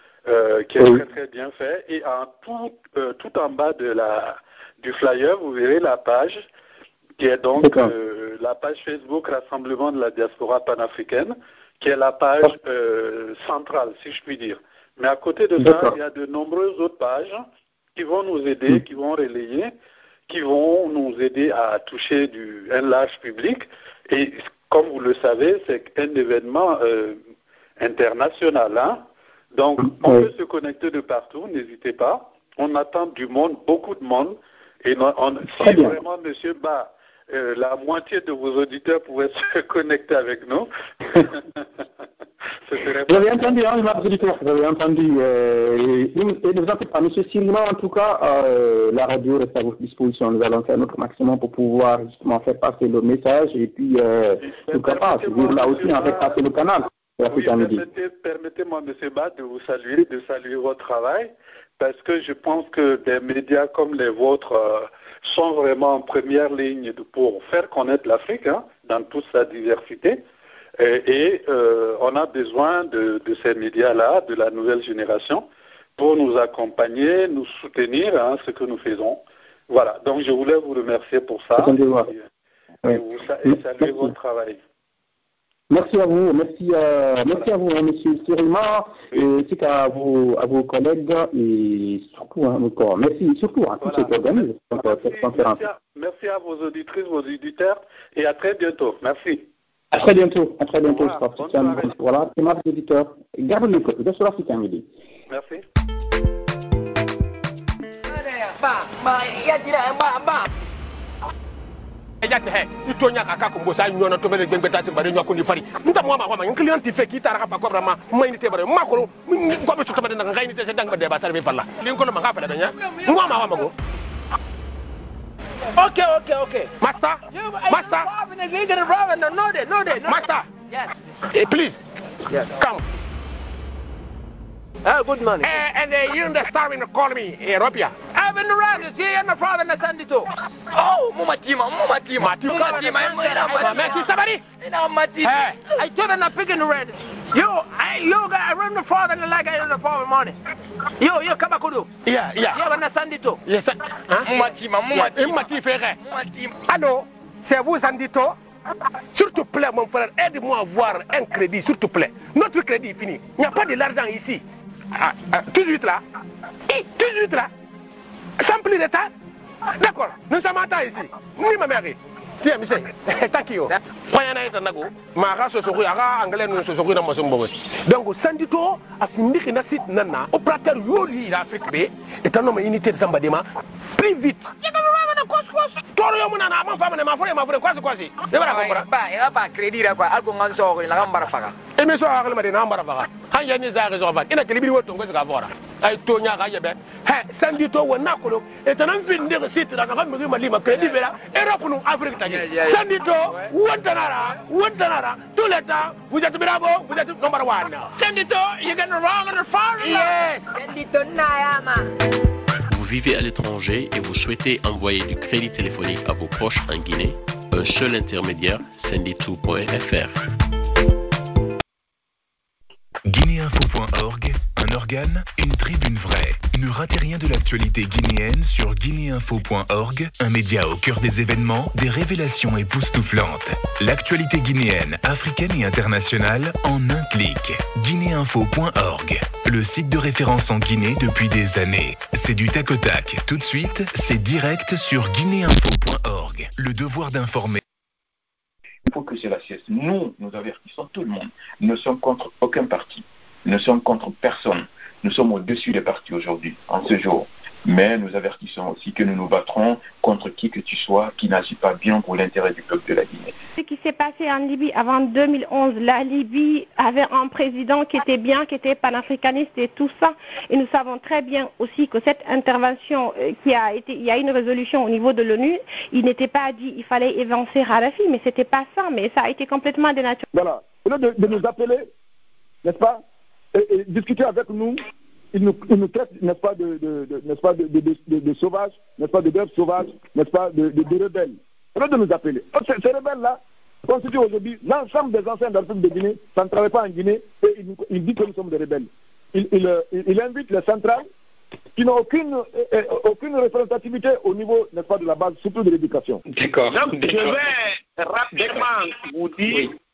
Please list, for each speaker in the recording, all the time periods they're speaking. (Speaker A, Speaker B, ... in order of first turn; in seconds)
Speaker A: 0.3-6.5, 7.2-17.4, 18.0-19.7, 20.3-27.2, 27.8-41.6, 42.7-43.6, 54.6-56.3, 57.3-70.2, 70.8-82.2, 82.8-84.6, 93.8-99.5, 100.8-101.9, 105.3-105.6
Speaker B: 7.6-7.9, 15.6-15.9, 29.9-30.3, 35.6-36.0, 43.1-57.8, 81.6-82.1, 82.8-84.1, 85.7-95.6, 99.9-104.9
Speaker C: 108.1-110.5, 209.8-211.9
Speaker D: 112.2-123.7, 125.8-128.1, 130.0-130.5, 131.3-131.8, 132.3-132.8, 135.4-138.0, 142.2-144.4, 145.2-145.6, 152.1-152.7, 153.4-156.0, 156.7-158.4, 159.1-166.0, 166.7-167.5, 168.4-169.1, 169.8-184.5, 185.8-188.9, 191.8-208.0, 209.8-210.5
Speaker E: 127.3-130.9, 134.8-135.6, 138.1-150.4, 151.0-151.9, 152.5-153.4, 154.2-155.4, 156.0-156.6, 188.4-191.6, 202.3-202.8
Speaker F: 212.7-220.2
Speaker G: 223.1-247.6
Speaker H: 248.8-263.4
Speaker I: 263.6-280.2
Speaker J: 280.3-281.9, 282.6-283.0, 283.5-301.1, 301.8-306.2
Speaker K: 306.7-309.7